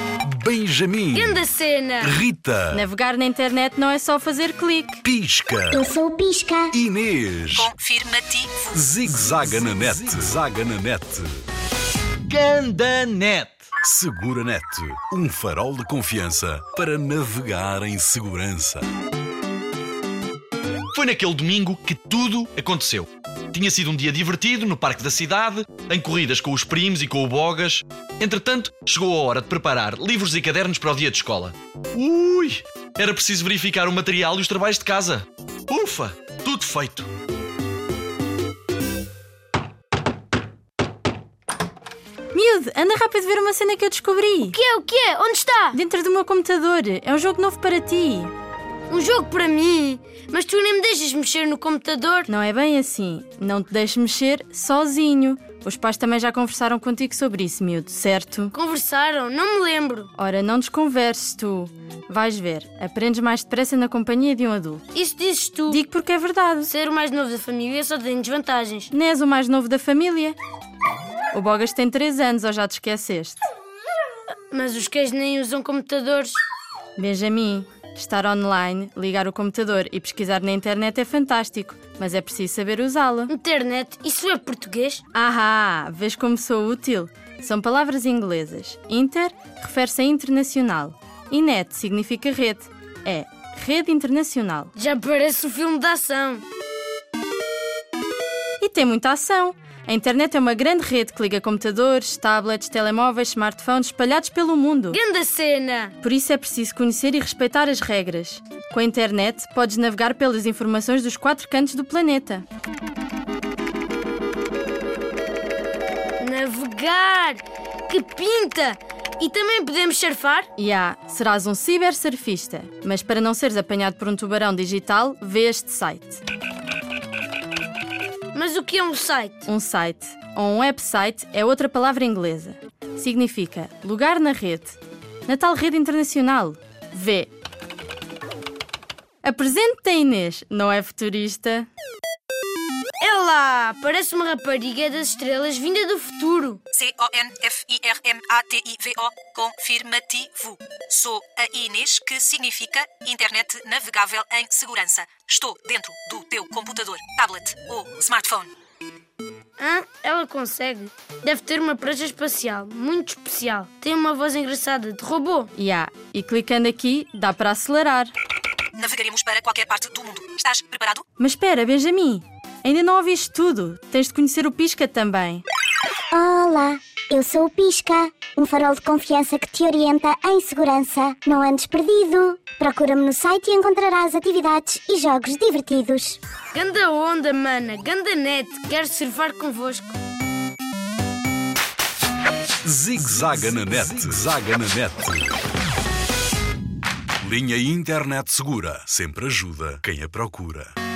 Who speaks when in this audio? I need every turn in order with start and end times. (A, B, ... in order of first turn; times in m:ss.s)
0:00.2-0:01.4 A
0:01.1-0:02.2 B
0:02.0-0:02.8 A
0:02.7-0:05.0 C
0:05.0-0:05.9 A
0:05.7-0:06.7 D
0:06.7-0:07.7 A
0:07.6-0:08.5 E
0:08.7-0:11.3 A
0:12.3-0:13.7 F
0:13.8-0:18.9 A
0:20.9-0:37.1 F
0:42.3-0:44.6 C
0:44.5-0:45.8 B
0:45.7-0:48.3 C
0:48.9-0:52.3 B
0:52.3-0:58.5 C
0:58.5-1:00.1 B
1:00.2-1:04.8 C
1:05.0-1:05.8 B
1:05.7-1:06.7 C
1:06.7-1:08.9 B
1:08.9-1:10.4 C
1:11.3-1:13.4 C
1:14.5-1:16.4 B
1:17.0-1:23.3 C
1:23.3-1:25.0 B
1:25.1-1:34.7 C
1:34.8-1:36.4 B
1:38.6-1:45.0 C
1:44.9-1:45.9 B
1:46.0-1:52.4 C
1:56.2-2:00.5 B
2:00.6-2:06.2 C
2:08.3-2:09.5 B
2:09.5-2:17.3 C
2:19.2-2:21.7 C
2:23.0-2:26.6 B
2:26.7-2:38.5 E
2:39.6-2:45.5 B
2:45.6-2:48.1 C
2:48.8-2:51.0 E
2:51.2-2:55.4 C
2:56.1-3:06.2 D
3:06.5-3:10.0 B
3:12.6-3:15.4 A
3:17.2-3:20.8 A